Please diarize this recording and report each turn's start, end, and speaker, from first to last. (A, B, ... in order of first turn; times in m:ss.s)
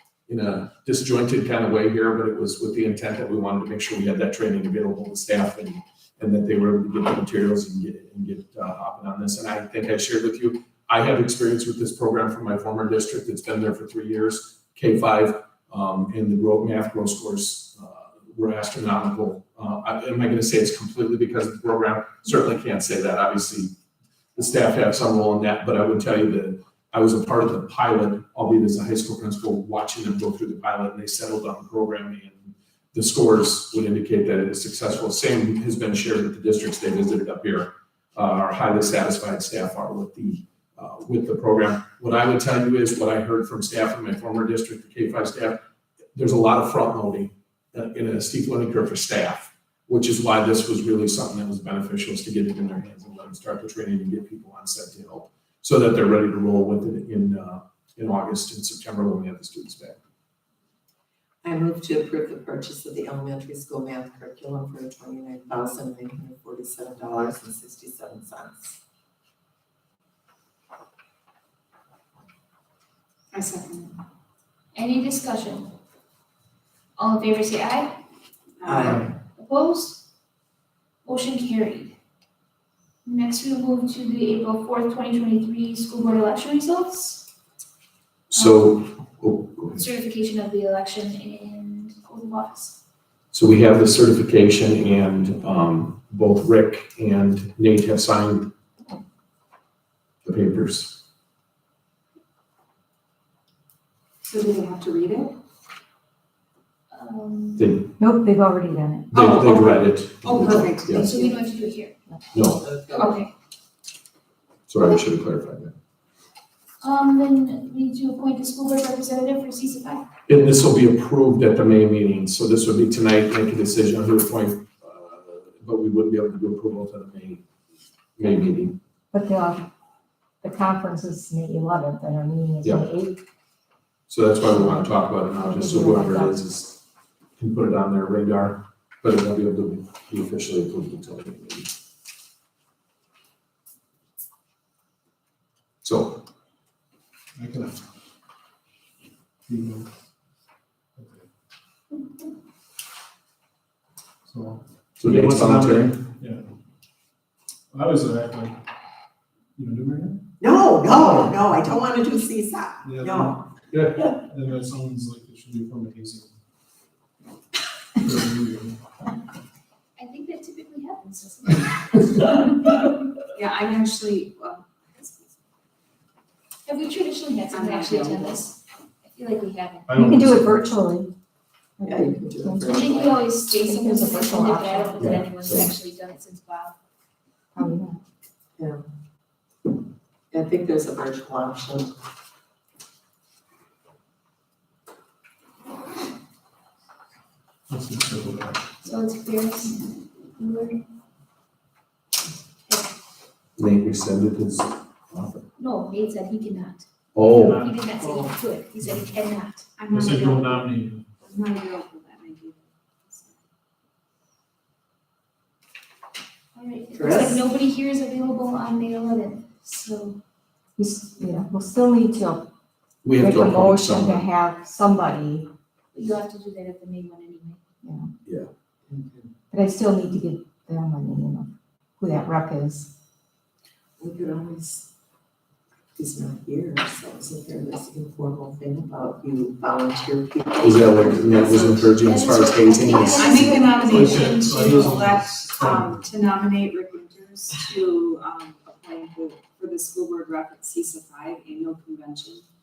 0:00.3-0:23.8 A
0:24.4-0:45.6 A
0:46.2-1:00.0 A
1:01.4-1:08.8 B
1:13.3-1:14.0 C
1:14.8-1:15.7 D
1:17.0-1:18.0 D
1:18.6-1:19.0 C
1:18.6-1:19.1 B
1:18.8-1:20.0 D
1:21.0-1:22.0 D
1:23.0-1:27.3 D
1:28.3-1:29.8 A
1:28.3-1:28.7 D
1:29.7-1:32.8 D
1:33.3-1:38.5 A
1:40.2-1:41.0 A
1:44.2-1:45.4 C
1:46.9-1:47.7 D
1:47.6-1:47.9 A
1:48.0-1:49.1 E
1:49.1-1:51.1 A
1:49.1-1:51.5 C
1:51.0-1:52.0 D
1:52.3-1:52.6 A
1:52.6-1:53.2 B
1:52.9-1:53.3 D
1:54.7-1:55.7 A
1:56.8-2:00.1 D
2:00.3-2:07.4 A
2:08.2-2:08.8 A
2:09.1-2:09.7 E
2:10.4-2:13.2 E
2:14.1-2:16.8 A
2:14.4-2:16.4 E
2:17.4-2:21.7 A
2:25.8-2:26.2 A
2:27.4-2:27.8 F
2:29.5-2:29.9 F
2:31.0-2:31.3 F
2:34.3-2:36.4 F
2:35.0-2:36.0 A
2:37.7-2:38.6 F
2:39.6-2:40.2 F
2:40.4-2:43.4 B
2:42.8-2:46.4 F
2:48.0-2:48.8 F
2:50.0-2:52.6 D
2:53.3-2:55.4 C
2:56.7-3:00.0 D
2:57.5-2:58.5 C
2:59.9-3:00.7 F
3:00.0-3:01.1 E
3:01.8-3:02.9 E
3:01.8-3:03.3 B
3:02.6-3:06.8 D
3:03.5-3:05.1 E
3:05.0-3:05.7 A
3:07.6-3:08.0 E
3:08.6-3:08.8 B
3:10.3-3:11.9 B
3:17.7-3:18.6 F
3:18.8-3:20.8 D
3:22.7-3:22.9 D
3:23.6-3:25.5 A
3:25.6-3:26.9 D
3:27.1-3:27.6 A
3:27.4-3:27.7 F
3:27.6-3:29.7 D
3:28.0-3:28.3 B
3:29.8-3:33.4 C
3:29.9-3:31.0 F
3:36.6-3:40.2 D
3:37.0-3:37.4 B
3:40.8-3:42.5 E
3:43.0-3:44.3 A
3:43.2-3:45.5 E
3:45.9-3:47.6 D
3:47.8-3:48.1 E
3:48.2-3:48.5 A
3:48.9-3:49.3 B
3:49.5-3:52.9 E
3:54.0-3:54.9 B
3:56.0-4:01.9 B
4:00.6-4:03.8 A
4:01.9-4:04.9 D
4:02.8-4:12.5 C
4:03.9-4:06.0 F